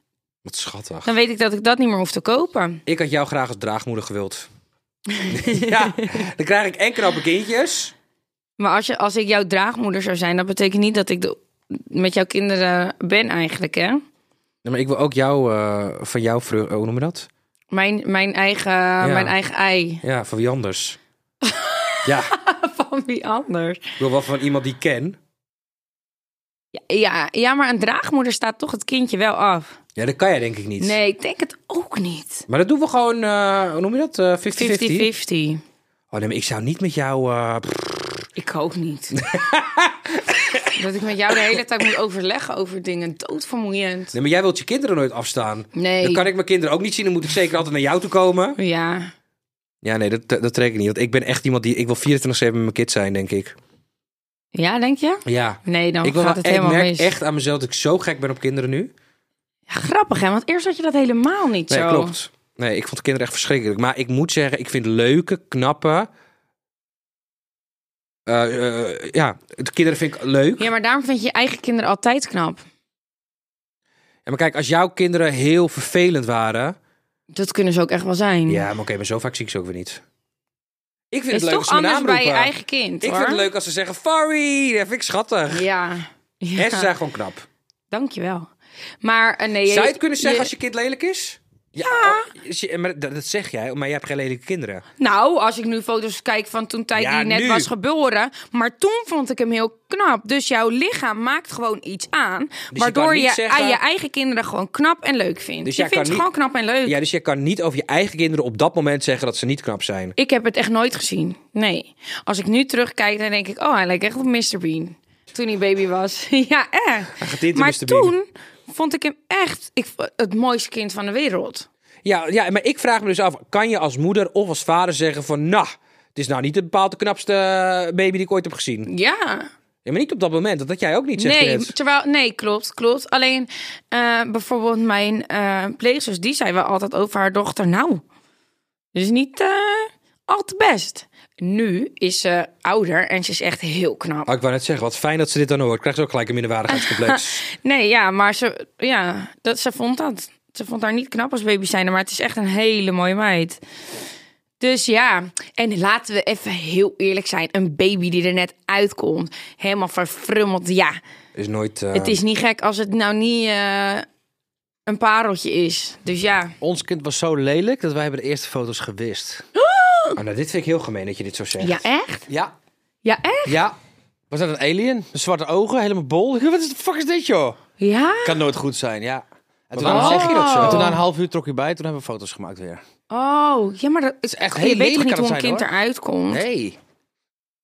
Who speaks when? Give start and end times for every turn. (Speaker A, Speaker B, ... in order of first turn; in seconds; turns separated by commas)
Speaker A: 0.4-1.1, Speaker B: 1.0-2.8, Speaker A: 2.9-4.5, Speaker B: 5.2-5.9, Speaker A: 5.3-7.9, Speaker B: 8.6-14.0, Speaker A: 14.6-17.3, Speaker B: 17.7-20.0, Speaker A: 19.0-19.4, Speaker A: 20.0-21.0, Speaker B: 21.4-24.0, Speaker A: 22.0-22.3, Speaker A: 24.0-25.2, Speaker B: 26.7-29.8, Speaker A: 29.9-31.0, Speaker B: 30.8-32.4, Speaker A: 32.5-35.1, Speaker B: 34.5-35.6, Speaker A: 36.1-38.3, Speaker B: 38.4-39.2, Speaker A: 39.1-40.8, Speaker B: 40.7-44.1, Speaker A: 41.3-41.6, Speaker A: 44.1-48.6, Speaker B: 45.7-46.2, Speaker B: 48.6-49.1, Speaker A: 49.8-53.5, Speaker B: 54.5-57.1, Speaker A: 55.2-58.9, Speaker B: 59.7-62.1, Speaker A: 61.7-66.1, Speaker A: 68.2-70.7, Speaker B: 70.6-72.6, Speaker A: 74.2-76.8, Speaker B: 77.3-78.7, Speaker A: 78.5-80.0, Speaker A: 81.1-85.6, Speaker B: 81.3-83.5, Speaker B: 85.5-86.9, Speaker A: 86.5-87.5, Speaker B: 87.9-88.5, Speaker B: 89.0-90.5, Speaker A: 89.7-94.8, Speaker B: 91.8-92.3, Speaker B: 95.0-106.9, Speaker A: 97.0-97.7, Speaker A: 102.7-103.8, Speaker A: 105.6-106.3, Speaker A: 106.8-110.1, Speaker B: 110.2-121.7, Speaker A: 117.2-118.1, Speaker A: 122.0-128.9, Speaker B: 128.9-129.5, Speaker A: 129.8-131.7, Speaker B: 131.2-138.0, Speaker B: 138.9-144.3, Speaker A: 144.3-147.4, Speaker B: 146.7-153.6, Speaker B: 154.6-160.9, Speaker A: 161.3-162.2, Speaker B: 161.9-164.1, Speaker B: 164.9-166.6, Speaker C: 166.6-169.4, Speaker B: 169.6-170.2, Speaker A: 170.2-171.8, Speaker B: 171.6-172.3, Speaker B: 173.0-173.6, Speaker C: 173.4-173.7, Speaker C: 174.3-177.6, Speaker B: 177.8-178.4, Speaker C: 178.2-182.8, Speaker A: 179.7-180.9, Speaker B: 179.8-181.0, Speaker B: 183.1-186.4, Speaker C: 184.3-185.7, Speaker C: 186.3-186.8